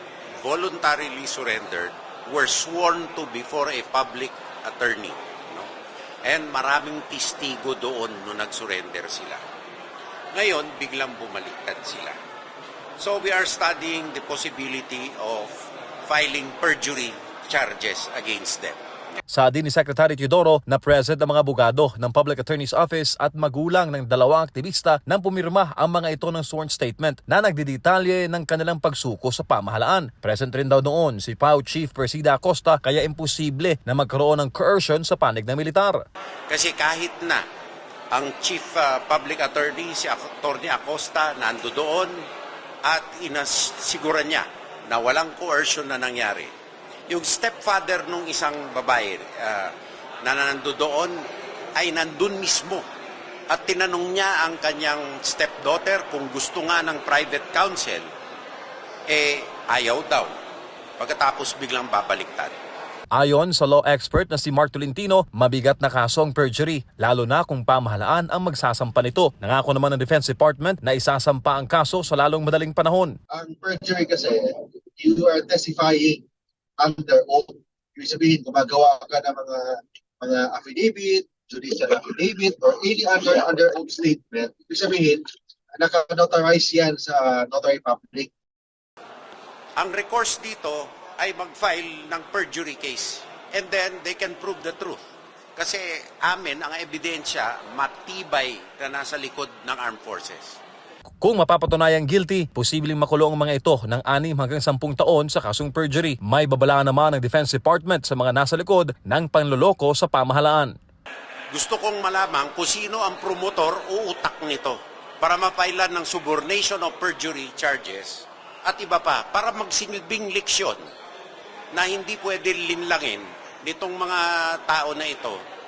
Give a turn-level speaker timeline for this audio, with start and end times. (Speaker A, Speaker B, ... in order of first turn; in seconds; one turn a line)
Speaker A: 0.4-5.7
Speaker A: 6.2-9.4
Speaker A: 10.3-12.2
Speaker A: 13.0-18.8
Speaker B: 19.3-36.0
Speaker A: 36.5-37.4
Speaker A: 38.1-42.2
Speaker A: 42.8-46.5
Speaker A: 47.1-51.2
Speaker A: 51.8-52.8
Speaker A: 53.5-58.1
Speaker A: 59.1-60.3
Speaker A: 61.0-62.5
Speaker B: 63.1-73.2
Speaker C: 73.3-76.2
Speaker C: 76.8-85.2
Speaker C: 85.8-88.3
Speaker A: 89.8-95.0
Speaker A: 95.5-100.6
Speaker B: 101.2-110.7
Speaker A: 111.5-120.9
Speaker A: 121.7-125.4